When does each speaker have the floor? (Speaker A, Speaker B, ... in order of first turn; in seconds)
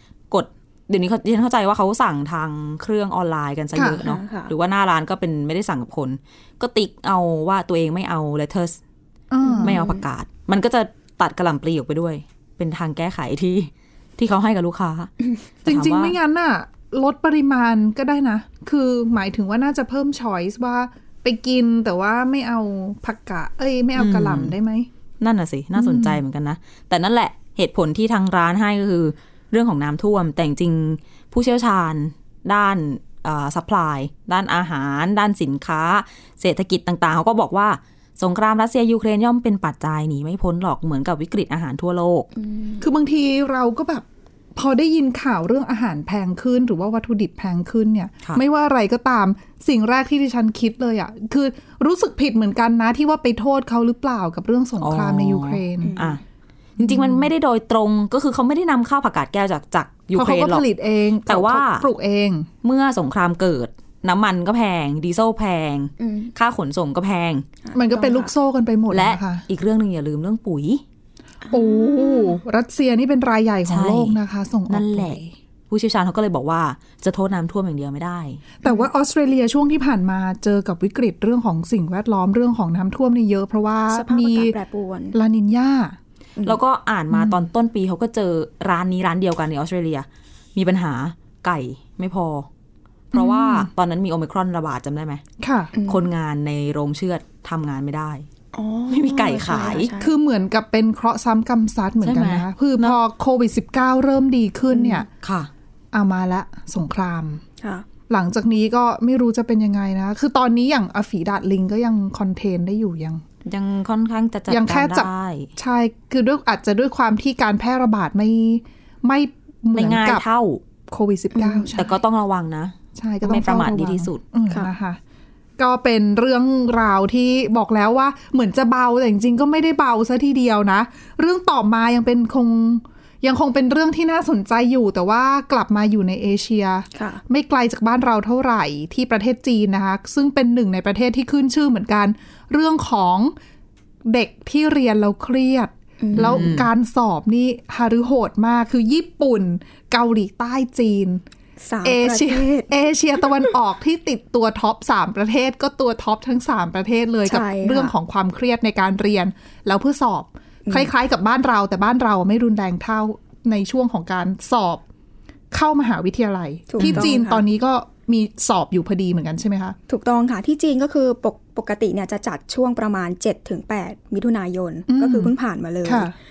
Speaker A: 0.3-8.8, 9.6-15.1, 15.6-16.1, 23.9-24.5, 25.2-42.3, 54.8-56.2, 56.8-60.6, 61.2-61.9, 62.6-67.5, 68.9-70.8, 73.7-74.2, 74.7-78.6, 86.4-92.5, 93.1-95.2, 95.9-98.2, 98.9-99.9, 102.0-103.0, 105.2-105.5, 113.4-115.5, 119.7-120.6, 121.7-124.2, 146.1-146.7, 166.8-167.1
Speaker B: 3.7-4.0, 9.3-9.8, 15.7-24.9, 25.8-26.2, 42.8-56.0, 56.8-57.3, 60.1-62.5, 67.7-69.4, 71.5-75.3, 78.6-84.5, 85.1-86.0, 87.1-87.5, 93.1-93.7, 95.4-95.7, 100.0-105.1, 105.9-107.4, 108.1-113.2, 114.5-120.2, 120.8-121.9, 123.0-125.0, 125.6-143.3, 144.0-151.2, 151.8-164.8, 165.5-169.8, 174.9-176.1
Speaker C: 4.0-4.5, 9.4-10.0, 42.4-42.8, 55.8-56.2, 66.0-66.3, 67.6-68.3, 71.4-72.4, 83.9-85.2, 95.7-96.0, 98.5-100.1, 104.7-105.0, 107.6-107.8, 121.3-121.7, 136.9-137.2, 146.0-146.5, 151.6-152.7, 157.2-157.9, 166.7-167.4, 169.9-176.1